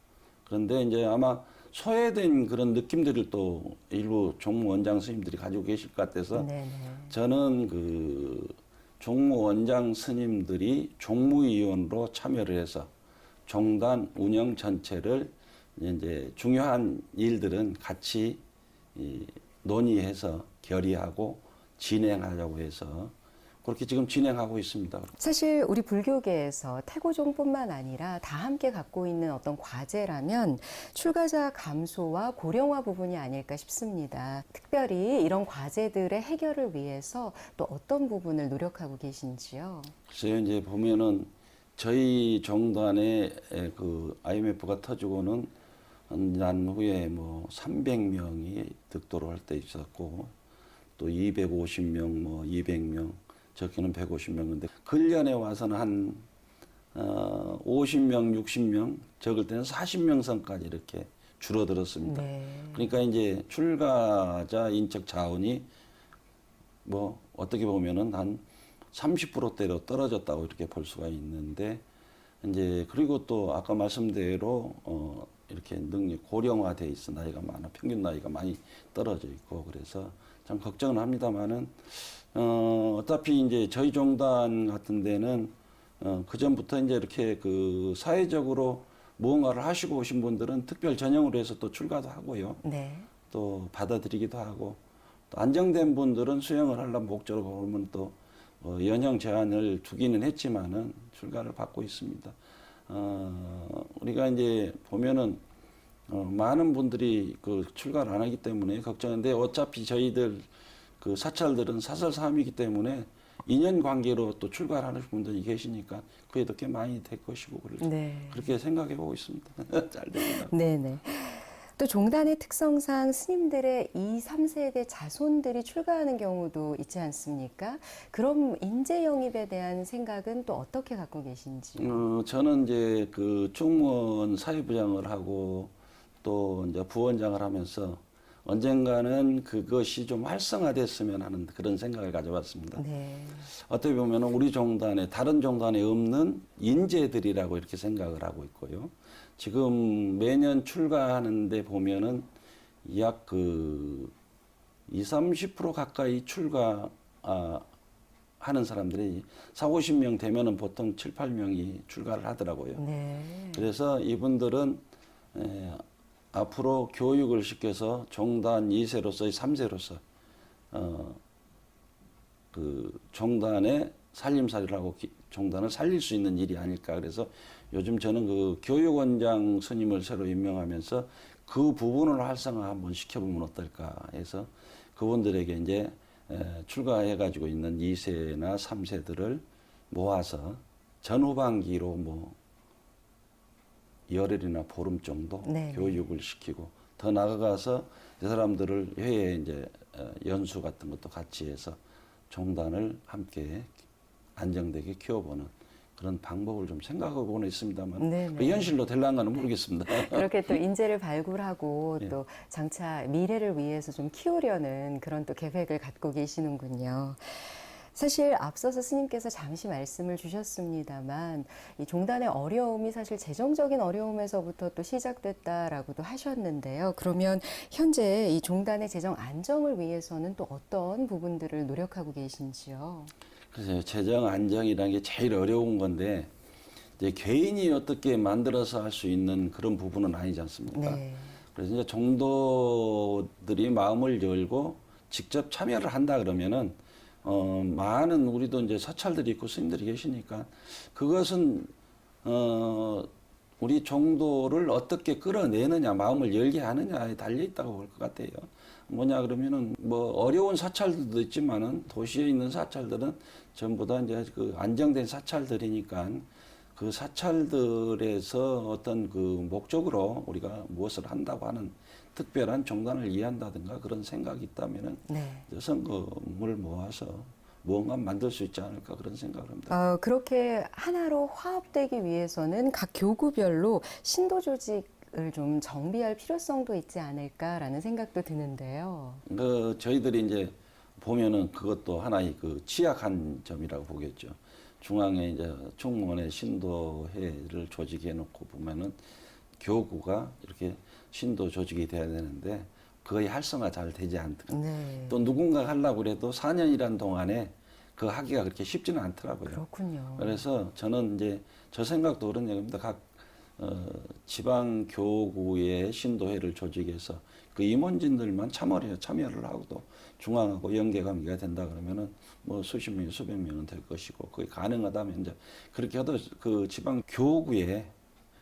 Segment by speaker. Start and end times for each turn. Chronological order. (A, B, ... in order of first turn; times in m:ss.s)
0:00.5-0:06.5 A
0:06.3-0:07.1 B
0:07.1-0:12.9 A
0:13.4-0:18.4 A
0:18.9-0:25.1 A
0:25.2-0:39.9 B
0:40.1-0:45.5 A
0:46.1-0:50.3 A
0:51.0-0:56.2 A
0:56.9-1:05.7 A
1:02.0-1:03.0 B
1:06.8-1:11.8 A
1:12.4-1:32.6 A
1:32.6-1:33.1 B
1:33.3-1:34.8 A
1:35.3-1:42.4 A
1:42.9-1:45.4 A
1:46.1-1:50.5 A
1:51.0-2:00.5 A
1:57.8-1:58.5 B
2:00.4-2:12.0 B
2:11.8-2:15.7 A
2:16.2-2:22.8 A
2:22.8-2:23.5 B
2:23.5-2:32.3 A
2:32.8-2:34.1 A
2:34.9-2:37.6 A
2:38.4-2:42.8 A
2:42.8-2:43.7 B
2:43.5-2:44.8 A
2:45.3-2:50.0 A
2:50.7-2:51.2 A
2:52.5-3:12.4 A
3:14.1-3:21.8 A
3:15.4-3:16.0 B
3:22.3-3:23.8 A
3:24.4-3:30.6 A
3:28.0-3:28.7 B
3:29.9-3:53.1 B
3:53.5-3:56.3 A
3:57.0-4:01.0 A
4:00.7-4:01.4 B
4:01.5-4:11.7 A
4:12.2-4:13.1 A
4:13.6-4:39.7 A
4:35.1-4:35.5 B
4:39.7-4:49.2 B
4:49.2-4:59.0 A
4:59.6-5:04.6 A
5:04.5-5:05.2 B
5:05.1-5:09.6 A
5:09.4-5:10.4 B
5:10.2-5:27.9 A